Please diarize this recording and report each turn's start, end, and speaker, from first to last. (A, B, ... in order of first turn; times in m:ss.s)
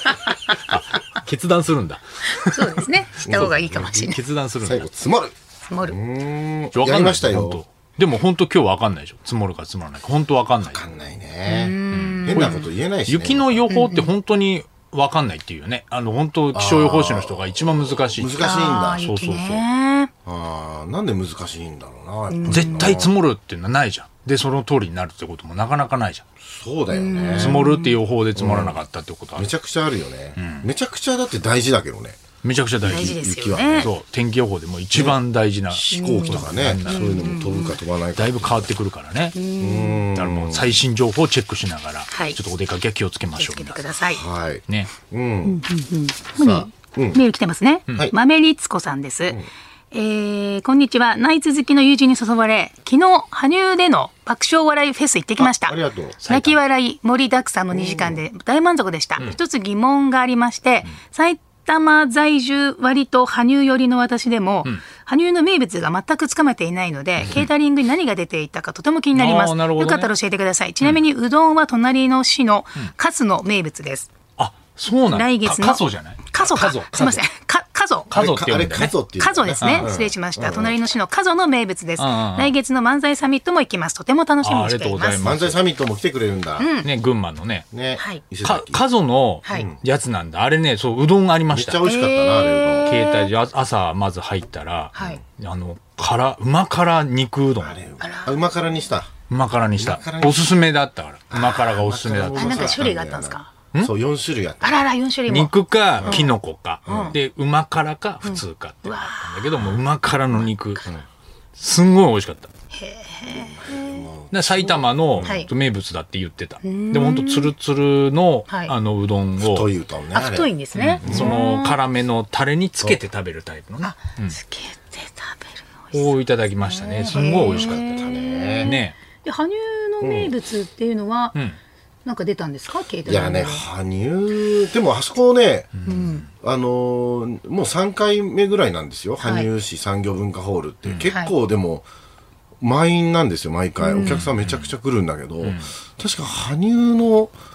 0:00.7-0:04.9 A
0:02.4-0:04.2 B
0:03.3-0:03.8 C
0:04.6-0:07.6 C
0:05.7-0:06.0 B
0:06.7-0:10.8 A
0:10.7-0:13.7 C
0:11.5-0:12.7 B
0:11.9-0:19.6 A
0:13.7-0:14.1 B
0:16.5-0:19.1 C
0:18.4-0:20.1 B
0:20.2-0:23.1 C
0:22.3-0:23.0 B
0:22.5-0:26.2 A
0:26.4-0:27.6 C
0:26.9-0:28.0 B
0:27.4-0:29.5 A
0:28.4-0:28.8 C
0:29.4-0:32.2 C
0:30.4-0:30.7 A
0:32.4-0:33.2 A
0:32.8-0:33.9 C
0:32.9-0:33.9 B
0:33.8-0:37.2 A
0:35.7-0:38.7 C
0:35.9-0:37.8 B
0:38.2-0:39.4 A
0:39.4-0:40.0 B
0:39.6-0:40.8 C
0:40.1-0:43.8 A
0:42.1-0:42.4 B
0:43.4-0:44.2 B
0:44.1-0:45.6 C
0:45.4-1:14.1 B
0:46.4-0:47.2 C
0:55.4-0:56.2 C
0:56.2-0:56.6 A
0:57.7-0:58.2 C
1:09.2-1:10.1 A
1:14.4-1:17.2 A
1:15.1-1:18.1 B
1:18.1-1:18.9 A
1:18.1-1:20.8 C
1:19.2-1:25.3 B
1:19.6-1:19.9 A
1:22.0-1:22.5 A
1:24.4-1:25.6 A
1:25.2-1:26.8 C
1:26.6-1:26.9 B
1:26.8-1:27.7 A
1:27.7-1:28.8 C
1:28.0-1:28.2 B
1:28.4-1:31.8 A
1:29.5-1:29.8 C
1:31.5-1:33.0 C
1:31.8-1:33.3 B
1:32.8-1:37.8 A
1:35.0-1:35.2 B
1:37.6-1:39.1 C
1:38.0-1:38.4 B
1:39.3-1:42.8 A
1:39.8-1:40.6 C
1:41.3-1:44.8 C
1:42.3-1:43.5 B
1:44.6-1:46.3 B
1:45.3-1:50.9 A
1:46.0-1:46.3 C
1:46.9-1:47.2 B
1:46.9-1:47.2 C
1:48.2-1:49.6 B
1:50.3-1:50.9 B
1:51.6-1:52.5 A
1:52.7-1:54.1 B
1:53.3-1:55.5 C
1:54.3-1:59.7 A
1:55.2-1:55.5 B
1:56.6-1:57.5 B
1:58.5-1:58.7 B
1:59.4-2:00.5 C
2:00.1-2:01.8 B
2:00.8-2:04.4 A
2:01.0-2:01.4 C
2:03.8-2:11.4 B
2:05.9-2:07.8 A
2:07.1-2:08.8 C
2:08.6-2:09.0 A
2:10.0-2:10.3 C
2:12.0-2:13.6 B
2:13.1-2:15.8 C
2:15.8-2:16.3 A
2:15.9-2:16.2 B
2:16.3-2:21.8 C
2:19.2-2:19.5 B
2:21.1-2:21.3 B
2:22.6-2:27.3 C
2:23.8-2:24.2 B
2:24.0-2:24.7 A
2:25.4-2:25.7 A